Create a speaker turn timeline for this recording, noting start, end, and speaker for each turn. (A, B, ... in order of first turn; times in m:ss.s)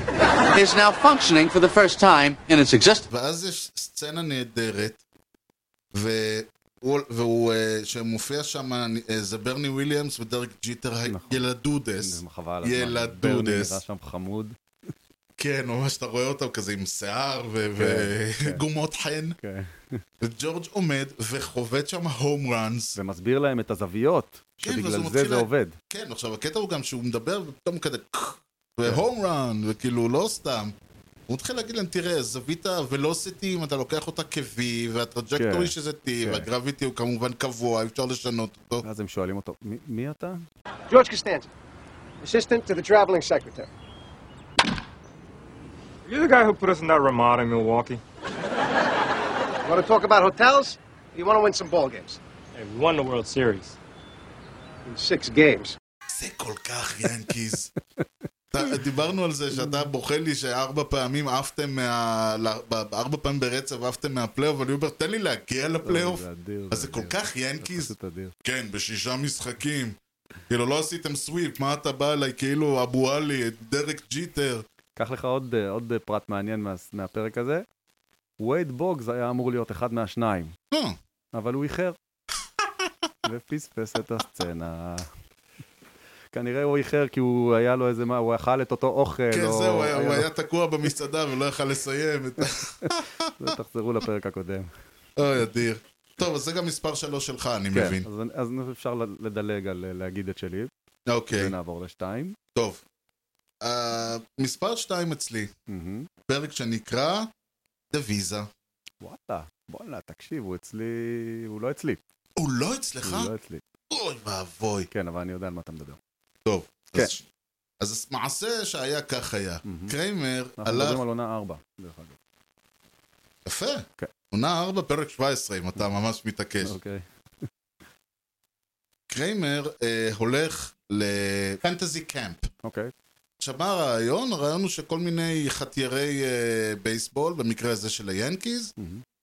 0:00.5-0:03.1 A
0:03.1-0:05.0 B
0:05.9-0:13.8 B
0:11.1-0:11.4 C
0:12.0-0:14.6 C
0:15.4-0:19.4 B
0:17.8-0:18.6 C
0:19.4-0:20.0 C
0:20.2-0:23.0 B
0:23.0-0:25.8 C
0:24.6-0:30.7 B
0:31.3-0:38.8 B
0:35.4-0:36.5 C
0:38.8-0:40.4 C
0:40.9-0:41.5 D
0:42.2-0:43.7 D
0:46.1-0:48.0 E
0:49.6-0:52.2 D
0:52.6-0:53.8 E
0:54.8-0:55.8 D
0:56.1-0:57.7 B
0:58.5-1:07.9 B
0:59.6-0:59.8 C
1:05.8-1:08.4 C
1:08.4-1:10.0 B
1:10.5-1:14.6 B
1:15.0-1:17.6 C
1:18.4-1:20.6 C
1:20.7-1:21.0 B
1:21.3-1:22.0 C
1:23.2-1:25.1 C
1:26.3-1:30.3 C
1:29.3-1:33.5 B
1:32.8-1:34.7 C
1:35.2-1:38.1 B
1:37.7-1:40.7 C
1:41.1-1:41.6 B
1:41.3-1:42.4 C
1:42.6-1:42.8 B
1:43.6-1:45.5 B
1:45.7-1:46.1 C
1:46.3-1:47.3 B
1:47.9-1:48.5 B
1:49.0-1:52.0 C
1:52.4-1:53.3 B
1:53.0-1:53.6 C
1:53.9-1:54.9 B
1:54.9-1:56.0 C
1:56.5-1:57.2 B
1:57.8-2:01.0 B
1:59.6-1:59.9 C
2:00.6-2:02.2 C
2:03.4-2:06.8 B
2:06.6-2:07.0 C
2:09.1-2:12.5 B
2:12.6-2:12.9 C
2:13.4-2:18.7 B
2:18.8-2:19.0 C